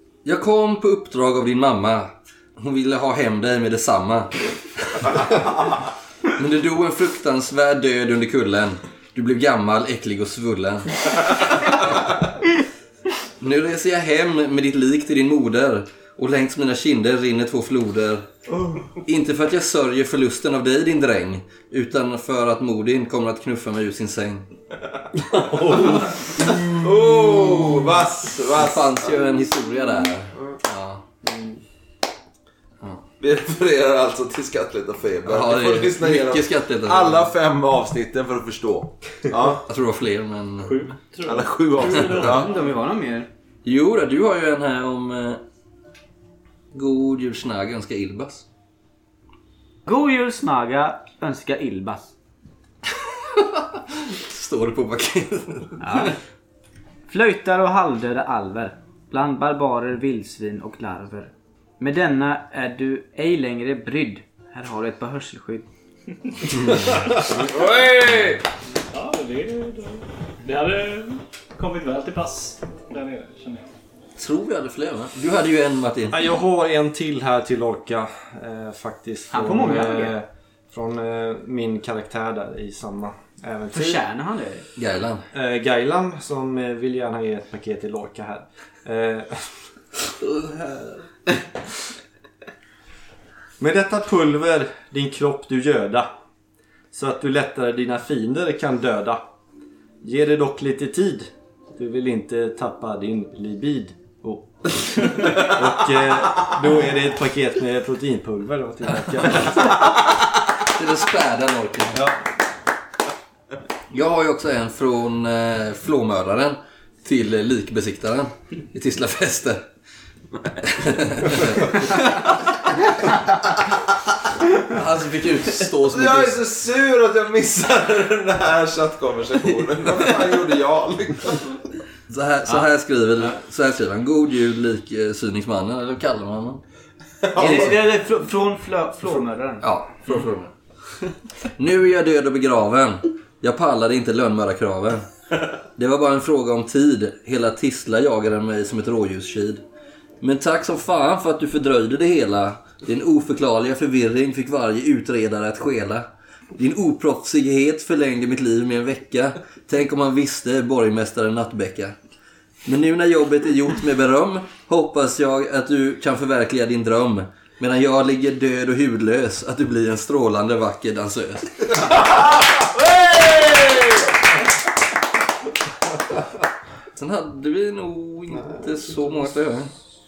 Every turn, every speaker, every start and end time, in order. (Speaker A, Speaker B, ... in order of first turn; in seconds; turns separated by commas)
Speaker A: 0.2-4.3, Speaker A: 4.9-5.2, Speaker A: 6.3-10.9, Speaker A: 13.4-18.2, Speaker A: 19.0-24.4, Speaker B: 25.4-29.2, Speaker A: 27.4-27.7, Speaker A: 28.5-31.0, Speaker B: 33.2-39.6, Speaker A: 35.2-37.3, Speaker A: 39.7-40.9, Speaker C: 40.6-42.7, Speaker B: 41.2-42.5, Speaker D: 42.2-43.3, Speaker A: 43.6-45.4, Speaker A: 46.7-48.4, Speaker D: 49.9-52.1, Speaker A: 54.1-55.8, Speaker D: 55.8-56.2, Speaker D: 57.1-65.7, Speaker B: 67.4-68.4, Speaker C: 68.9-73.7, Speaker A: 74.2-76.2, Speaker E: 76.1-84.0, Speaker D: 79.3-80.1, Speaker D: 83.7-84.7, Speaker A: 84.8-85.2, Speaker E: 85.3-89.5, Speaker A: 90.2-91.0, Speaker E: 93.6-96.1, Speaker E: 96.9-99.2, Speaker E: 100.0-109.7, Speaker A: 109.3-109.8, Speaker A: 110.6-112.0, Speaker E: 111.9-112.2, Speaker A: 113.9-119.6, Speaker A: 120.7-121.9, Speaker A: 124.7-126.4, Speaker B: 125.9-131.5, Speaker A: 132.1-136.6, Speaker B: 137.2-137.7, Speaker D: 137.3-139.7, Speaker A: 139.6-140.5, Speaker A: 141.6-145.1, Speaker A: 145.8-149.6, Speaker A: 150.2-161.9, Speaker A: 162.7-171.8, Speaker A: 176.9-179.7